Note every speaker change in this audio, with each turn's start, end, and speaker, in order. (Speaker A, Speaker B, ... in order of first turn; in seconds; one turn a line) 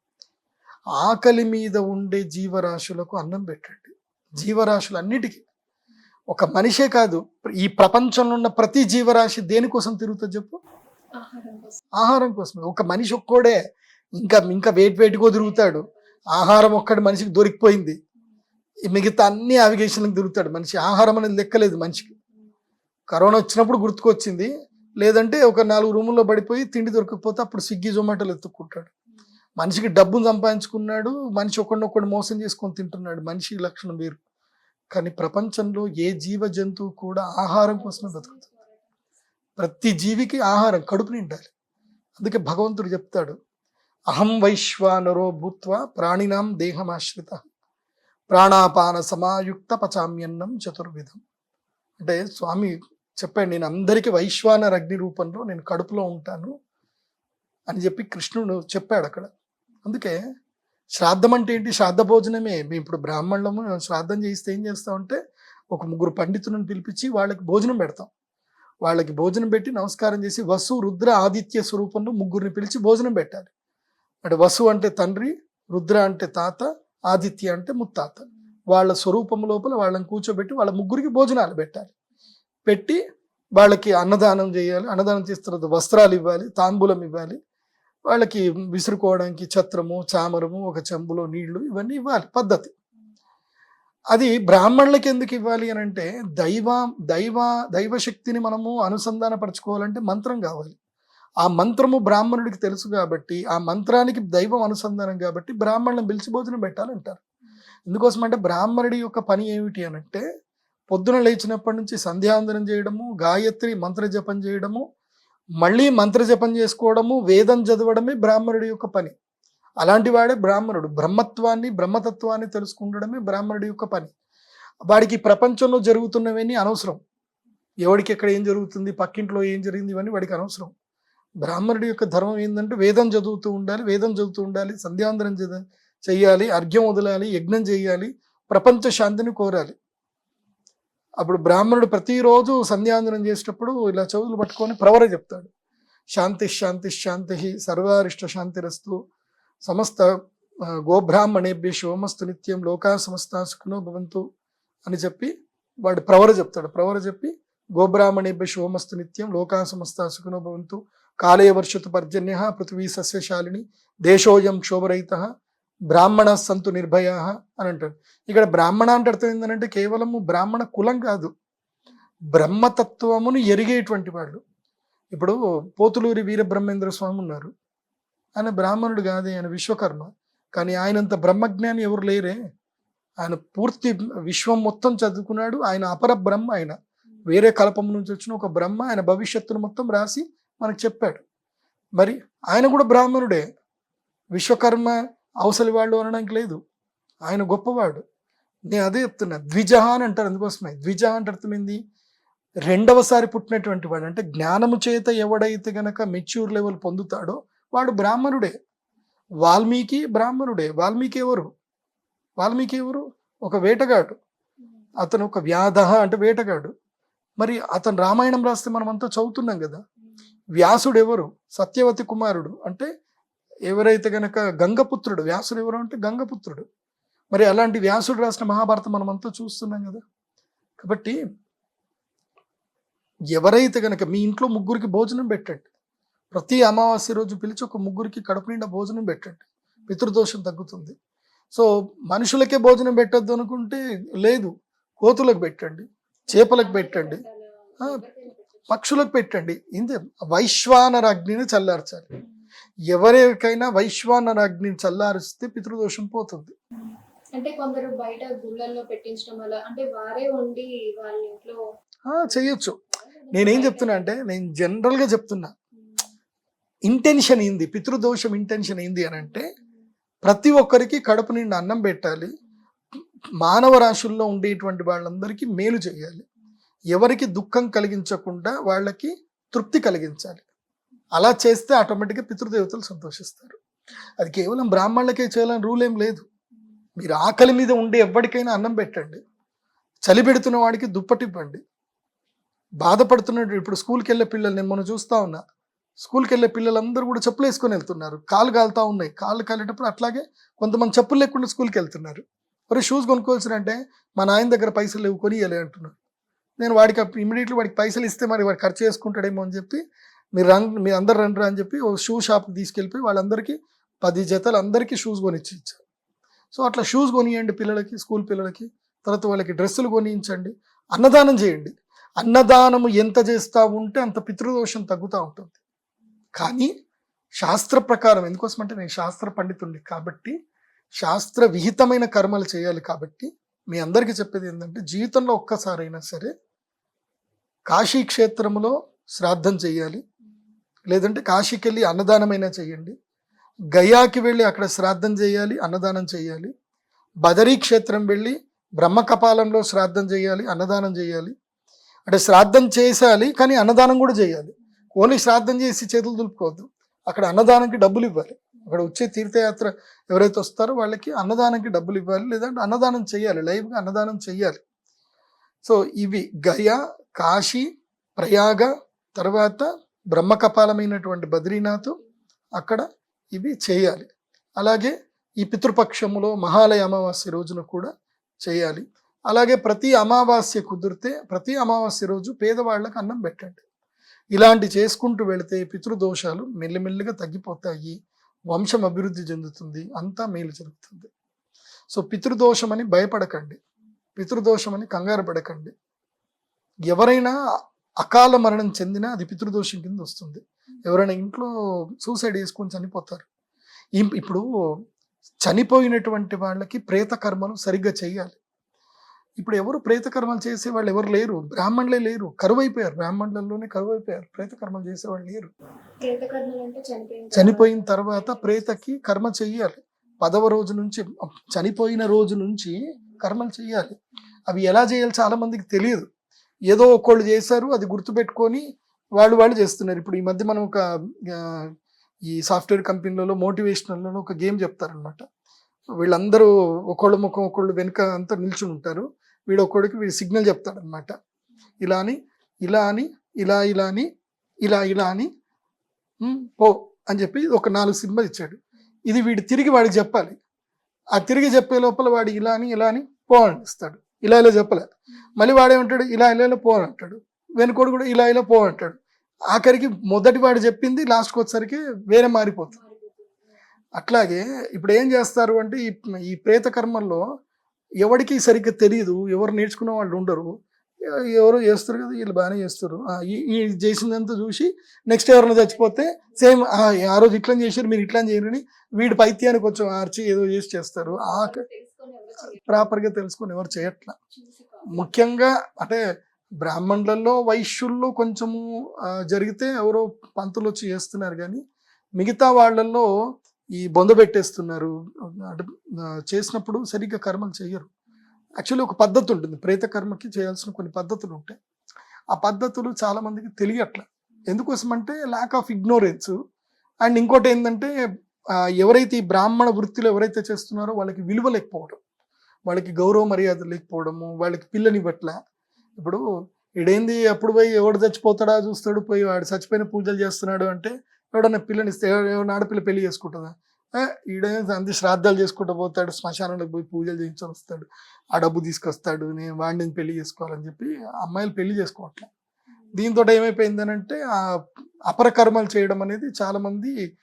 Speaker A: 1.0-5.4
Speaker A: 6.3-10.6
Speaker B: 11.2-11.8
Speaker A: 11.9-13.6
Speaker A: 14.2-18.0
Speaker B: 15.2-16.0
Speaker A: 18.9-22.1
Speaker B: 22.0-22.5
Speaker A: 23.1-28.9
Speaker A: 29.6-34.2
Speaker A: 34.9-38.3
Speaker B: 37.5-39.0
Speaker A: 39.6-41.5
Speaker A: 42.2-43.4
Speaker A: 44.1-47.4
Speaker A: 48.3-51.2
Speaker A: 52.0-56.5
Speaker A: 57.7-59.3
Speaker A: 59.8-60.2
Speaker A: 61.0-65.2
Speaker A: 65.7-68.1
Speaker A: 68.8-73.5
Speaker A: 74.2-81.9
Speaker A: 82.7-83.0
Speaker A: 83.6-87.4
Speaker A: 88.1-92.7
Speaker A: 94.1-100.8
Speaker A: 101.4-107.2
Speaker A: 107.9-110.2
Speaker A: 110.9-114.8
Speaker A: 115.6-119.1
Speaker A: 119.8-124.1
Speaker A: 124.9-127.0
Speaker A: 127.8-130.7
Speaker A: 131.4-139.8
Speaker A: 141.2-145.5
Speaker A: 146.1-149.0
Speaker A: 149.6-150.1
Speaker A: 150.9-154.2
Speaker A: 154.9-155.3
Speaker A: 155.8-165.3
Speaker A: 165.9-171.3
Speaker A: 172.3-174.4
Speaker A: 175.1-177.5
Speaker A: 178.3-182.4
Speaker A: 183.2-186.8
Speaker A: 187.3-191.2
Speaker A: 192.0-193.4
Speaker A: 194.3-196.6
Speaker A: 197.2-198.0
Speaker A: 198.7-201.8
Speaker A: 202.7-208.5
Speaker A: 209.4-211.5
Speaker A: 212.4-214.2
Speaker A: 215.0-216.7
Speaker A: 217.4-219.8
Speaker A: 220.6-222.9
Speaker A: 223.7-226.7
Speaker A: 227.3-230.0
Speaker A: 230.8-231.2
Speaker A: 233.3-235.6
Speaker A: 236.3-240.9
Speaker A: 241.5-247.2
Speaker B: 246.3-248.8
Speaker A: 248.7-252.1
Speaker A: 252.9-256.5
Speaker B: 257.3-261.6
Speaker A: 262.1-262.8
Speaker B: 262.2-264.1
Speaker A: 263.3-265.5
Speaker A: 266.9-269.5
Speaker B: 269.2-269.6
Speaker A: 270.2-272.3
Speaker A: 273.4-276.2
Speaker A: 276.9-280.4
Speaker A: 281.2-283.6
Speaker A: 284.2-286.2
Speaker A: 287.0-289.2
Speaker A: 290.1-291.6
Speaker A: 292.8-295.4
Speaker A: 296.0-305.9
Speaker A: 306.6-309.8
Speaker A: 310.4-315.8
Speaker A: 316.5-325.6
Speaker A: 326.4-326.7
Speaker A: 327.4-330.4
Speaker A: 331.0-336.3
Speaker A: 337.7-340.0
Speaker A: 340.9-342.9
Speaker A: 343.7-346.5
Speaker A: 347.2-351.3
Speaker A: 352.1-364.6
Speaker A: 365.6-367.6
Speaker A: 368.2-372.0
Speaker B: 371.7-372.1
Speaker A: 372.6-377.9
Speaker A: 378.4-383.6
Speaker A: 384.3-388.0
Speaker A: 388.5-391.1
Speaker A: 391.9-393.6
Speaker A: 394.2-395.7
Speaker A: 396.9-397.4
Speaker A: 398.0-401.5
Speaker A: 402.0-403.3
Speaker A: 404.0-404.4
Speaker A: 405.4-408.4
Speaker A: 409.4-415.5
Speaker B: 416.0-418.8
Speaker A: 417.3-426.1
Speaker A: 426.7-428.6
Speaker A: 429.2-431.7
Speaker A: 432.3-435.2
Speaker A: 436.0-441.1
Speaker A: 441.8-444.1
Speaker A: 444.6-445.3
Speaker A: 446.2-450.4
Speaker A: 451.1-459.0
Speaker A: 459.5-462.8
Speaker B: 462.7-463.6
Speaker A: 464.0-467.2
Speaker A: 468.0-470.5
Speaker A: 471.1-481.6
Speaker B: 475.5-476.8
Speaker B: 481.0-483.0
Speaker A: 482.6-484.1
Speaker B: 484.3-485.1
Speaker A: 484.9-486.0
Speaker A: 486.6-488.6
Speaker A: 489.3-491.6
Speaker A: 492.2-493.1
Speaker A: 493.8-494.9
Speaker A: 495.4-495.7
Speaker A: 496.3-497.9
Speaker A: 498.6-501.6
Speaker A: 502.3-506.4
Speaker A: 507.0-507.9
Speaker A: 508.8-512.0
Speaker A: 512.7-515.4
Speaker A: 516.0-516.2
Speaker A: 516.8-532.3
Speaker A: 533.0-534.2
Speaker A: 535.1-536.9